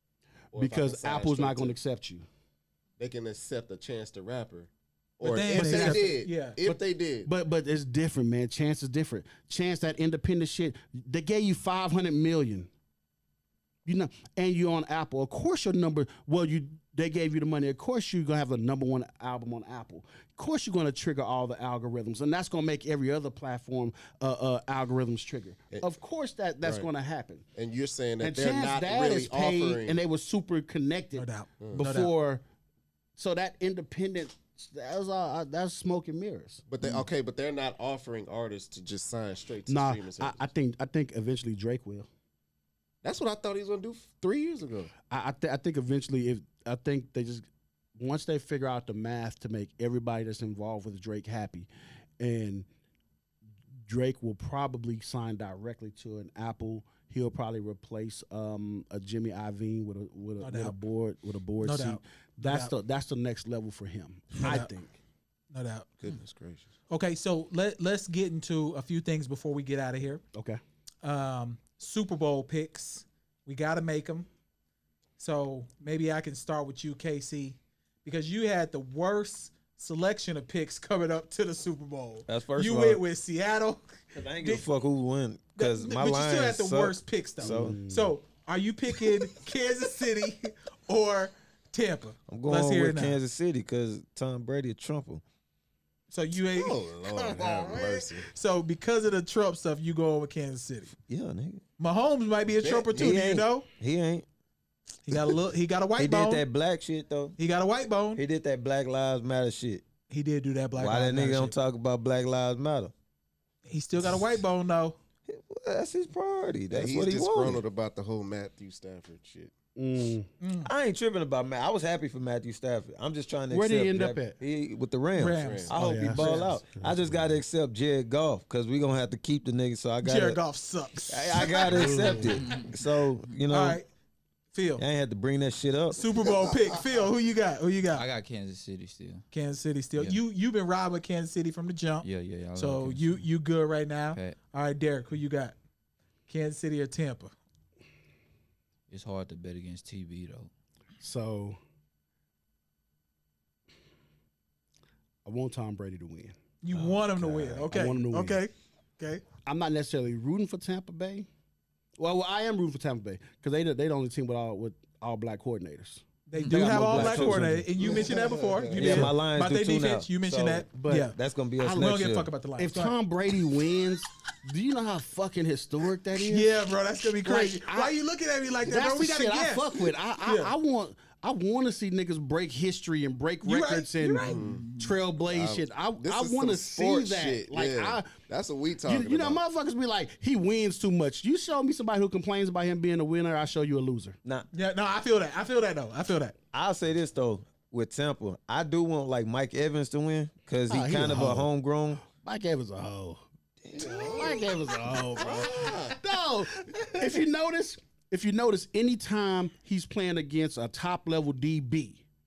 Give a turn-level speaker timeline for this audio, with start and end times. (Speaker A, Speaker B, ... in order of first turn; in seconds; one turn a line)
Speaker A: 0.5-1.7
Speaker B: 0.5-2.2
Speaker A: 3.0-7.3
Speaker C: 5.2-6.6
Speaker B: 5.4-12.7
Speaker B: 13.8-27.4
Speaker A: 27.6-30.0
Speaker B: 28.2-32.4
Speaker C: 31.1-32.1
Speaker B: 33.2-36.6
Speaker A: 36.7-40.5
Speaker B: 39.7-42.1
Speaker A: 43.0-44.9
Speaker B: 45.1-51.7
Speaker B: 52.2-52.7
Speaker B: 53.8-65.0
Speaker C: 60.4-60.8
Speaker C: 61.6-62.7
Speaker C: 64.4-64.7
Speaker C: 65.5-65.9
Speaker A: 66.0-66.7
Speaker C: 66.9-70.2
Speaker B: 70.3-70.6
Speaker C: 71.0-74.3
Speaker C: 75.2-83.8
Speaker D: 82.3-83.0
Speaker D: 84.1-87.8
Speaker C: 84.4-84.7
Speaker C: 85.5-93.2
Speaker B: 87.4-88.2
Speaker D: 92.3-95.2
Speaker C: 96.1-100.9
Speaker A: 96.5-98.3
Speaker D: 101.1-101.6
Speaker C: 101.8-103.7
Speaker A: 102.6-103.2
Speaker D: 102.9-104.2
Speaker C: 105.0-106.4
Speaker D: 106.0-107.3
Speaker C: 107.4-108.2
Speaker D: 108.2-109.8
Speaker C: 110.1-111.5
Speaker D: 110.8-112.9
Speaker C: 113.7-115.0
Speaker D: 115.3-117.6
Speaker A: 116.7-119.5
Speaker B: 119.8-120.3
Speaker C: 120.4-120.7
Speaker D: 120.6-130.4
Speaker B: 123.5-124.4
Speaker C: 125.2-126.5
Speaker A: 125.4-125.7
Speaker B: 125.7-126.9
Speaker C: 130.0-132.2
Speaker D: 131.1-133.8
Speaker B: 131.6-132.3
Speaker E: 132.3-132.7
Speaker C: 133.5-133.9
Speaker C: 134.5-134.8
Speaker D: 134.8-136.0
Speaker C: 135.9-138.1
Speaker E: 137.9-139.2
Speaker C: 139.3-145.6
Speaker E: 142.0-143.2
Speaker C: 146.3-147.3
Speaker E: 148.9-150.5
Speaker B: 151.0-151.6
Speaker B: 155.2-156.4
Speaker C: 156.6-159.2
Speaker B: 157.2-158.4
Speaker B: 159.4-161.3
Speaker B: 162.0-168.0
Speaker C: 166.3-172.9
Speaker E: 166.4-166.7
Speaker D: 166.7-167.5
Speaker A: 167.8-169.1
Speaker D: 168.7-172.3
Speaker B: 170.7-172.0
Speaker B: 172.6-176.5
Speaker C: 176.2-180.5
Speaker B: 177.2-177.9
Speaker B: 178.6-188.1
Speaker C: 183.4-184.4
Speaker A: 184.2-184.7
Speaker E: 184.5-184.9
Speaker A: 185.3-189.4
Speaker B: 188.8-194.2
Speaker C: 194.5-196.3
Speaker D: 196.5-202.0
Speaker B: 200.7-201.5
Speaker B: 202.0-203.2
Speaker D: 203.6-204.3
Speaker B: 203.8-212.0
Speaker A: 203.8-204.4
Speaker A: 205.2-205.9